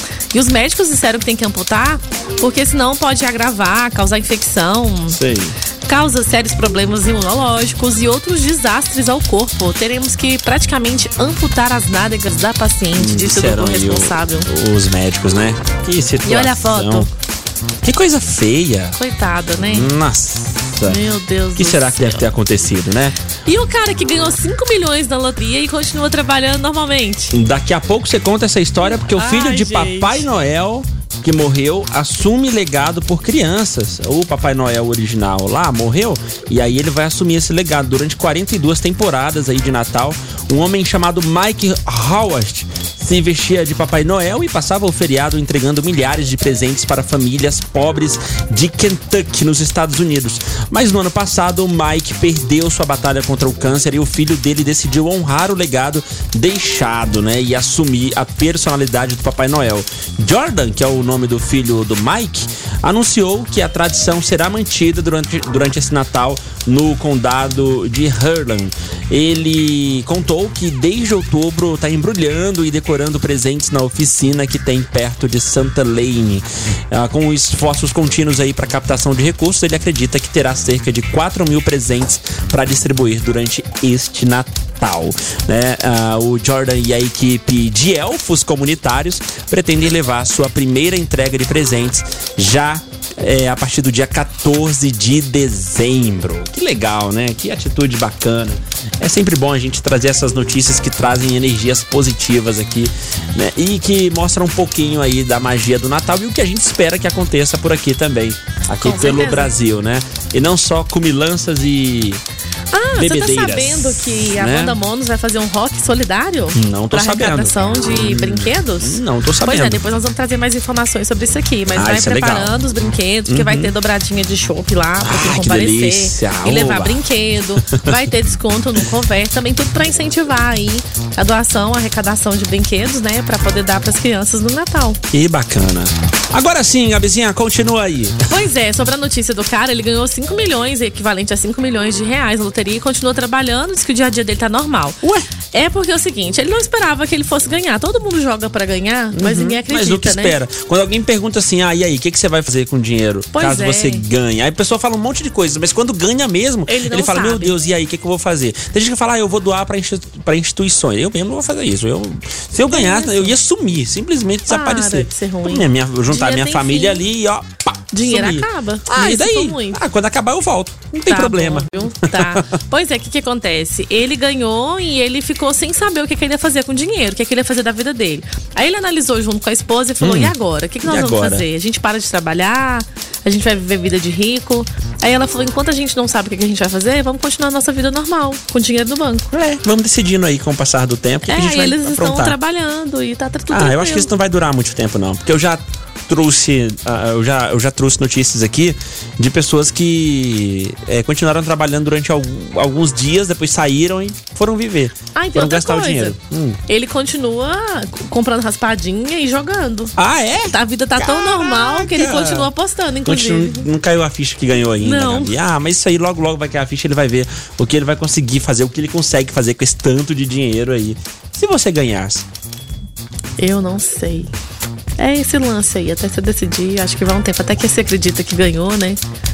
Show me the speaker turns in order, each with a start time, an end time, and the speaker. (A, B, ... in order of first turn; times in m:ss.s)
0:00.3-0:05.2 A
0:05.1-0:05.6 B
0:05.8-0:14.5 A
0:13.0-0:17.1 B
0:16.2-0:17.1 A
0:17.8-0:19.0 B
0:18.9-0:19.9 A
0:19.6-0:21.0 B
0:20.8-0:22.3 A
0:21.6-0:23.2 B
0:23.4-0:27.4 A
0:27.3-1:52.2 B
0:28.8-0:30.2 A
1:48.8-1:49.5 A
1:52.7-2:15.0 A
1:52.9-1:54.8 B
1:56.5-1:59.8 B
2:01.7-2:02.6 B
2:03.3-2:03.7 B
2:05.0-2:07.0 B
2:07.6-2:07.9 B
2:15.1-2:18.2 B
2:18.3-2:25.0 A
2:25.0-2:25.3 B
2:25.5-2:30.4 A
2:29.1-2:52.5 B
2:33.3-2:34.0 A
2:36.7-2:37.6 A
2:42.7-2:43.3 A
2:44.5-2:47.0 A
2:47.9-2:49.8 A
2:51.1-3:09.3 A
3:00.0-3:01.4 B
3:09.3-3:12.4 B
3:11.3-3:14.1 A
3:13.5-3:26.6 B
3:25.1-3:26.2 A
3:26.7-3:29.9 A
3:30.0-3:32.5 B
3:30.5-3:33.6 A
3:33.0-3:42.2 B
3:34.8-3:35.3 A
3:43.4-3:44.3 A
3:45.0-3:49.0 A